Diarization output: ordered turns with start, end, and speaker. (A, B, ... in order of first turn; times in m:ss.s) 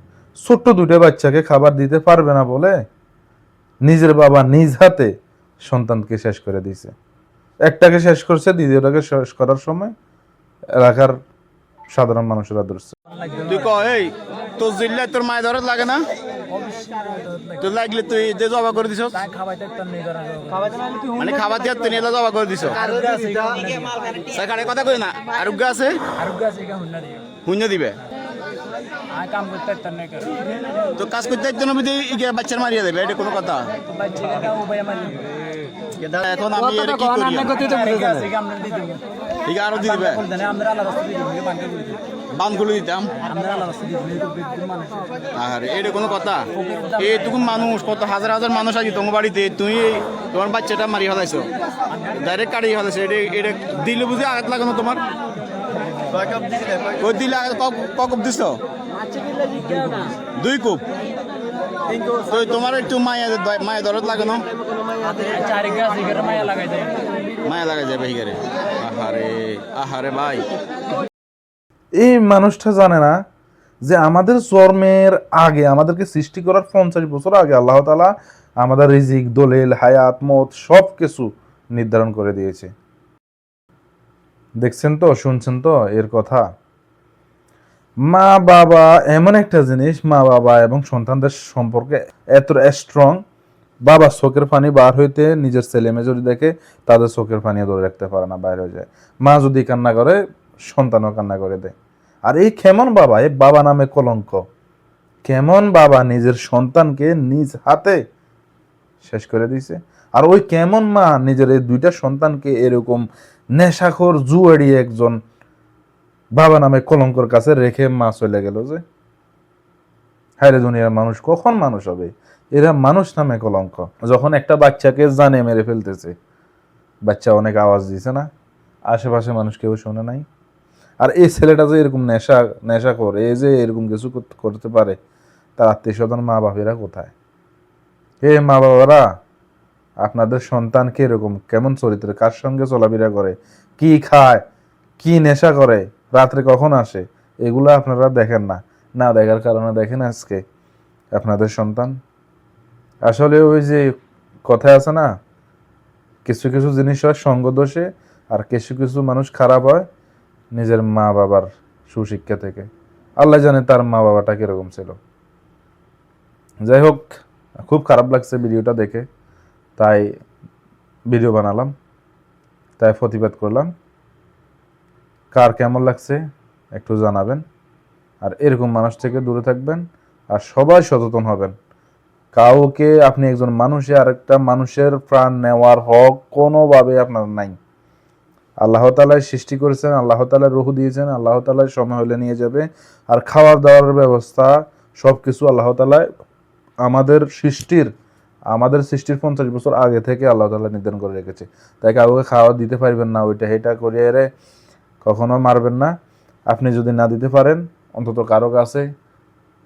0:00.4-0:02.8 A
0:03.9-0:05.1 A
0:05.7-0:06.9 A
0:07.7-0:09.9 A
0:10.8-0:11.2 A
0:11.9-0:13.0 A
0:13.4-0:16.0 B
0:16.5-0:17.6 C
0:17.6-0:19.2 B
0:19.2-0:21.0 C
0:21.2-0:22.9 B
0:22.8-0:23.9 C
0:24.2-0:26.2 B
0:26.2-0:27.3 C
0:27.4-0:28.0 B
0:29.1-0:30.4 C
0:31.0-0:33.7 B
0:33.9-0:35.3 C
0:36.0-0:37.8 B
0:37.5-0:39.0 C
0:39.4-0:40.3 B
0:39.9-0:42.0 C
0:42.4-0:43.2 B
0:43.2-0:45.0 C
0:45.3-0:51.5 B
0:46.7-0:47.1 C
0:52.1-0:55.0 B
0:56.1-0:56.4 C
0:57.0-0:58.6 B
0:59.6-1:00.1 C
1:00.4-1:00.8 B
1:02.3-1:04.4 B
1:05.2-1:07.0 C
1:07.4-1:10.5 B
1:12.0-1:13.1 A
1:13.9-1:22.7 A
1:24.6-1:26.4 A
1:28.1-1:33.2 A
1:33.9-1:40.2 A
1:40.7-1:41.7 A
1:42.3-1:44.4 A
1:45.2-1:48.0 A
1:49.0-1:53.0 A
1:53.6-1:55.2 A
1:56.4-1:58.8 A
2:00.4-2:06.1 A
2:07.1-2:08.3 A
2:08.9-2:10.2 A
2:11.0-2:15.0 A
2:15.6-2:17.1 A
2:18.2-2:19.0 A
2:20.0-2:24.4 A
2:25.0-2:30.4 A
2:31.2-2:32.0 A
2:33.1-2:33.9 A
2:34.5-2:35.1 A
2:36.2-2:39.9 A
2:40.5-2:42.7 A
2:43.2-2:45.0 A
2:46.6-2:49.1 A
2:49.8-2:50.1 A
2:51.1-2:51.7 A
2:52.8-2:53.7 A
2:55.3-2:56.2 A
2:56.7-2:57.4 A
2:58.2-3:01.5 A
3:02.3-3:07.6 A
3:08.6-3:16.1 A
3:16.8-3:17.9 A
3:18.5-3:24.3 A
3:25.0-3:25.9 A
3:26.5-3:28.9 A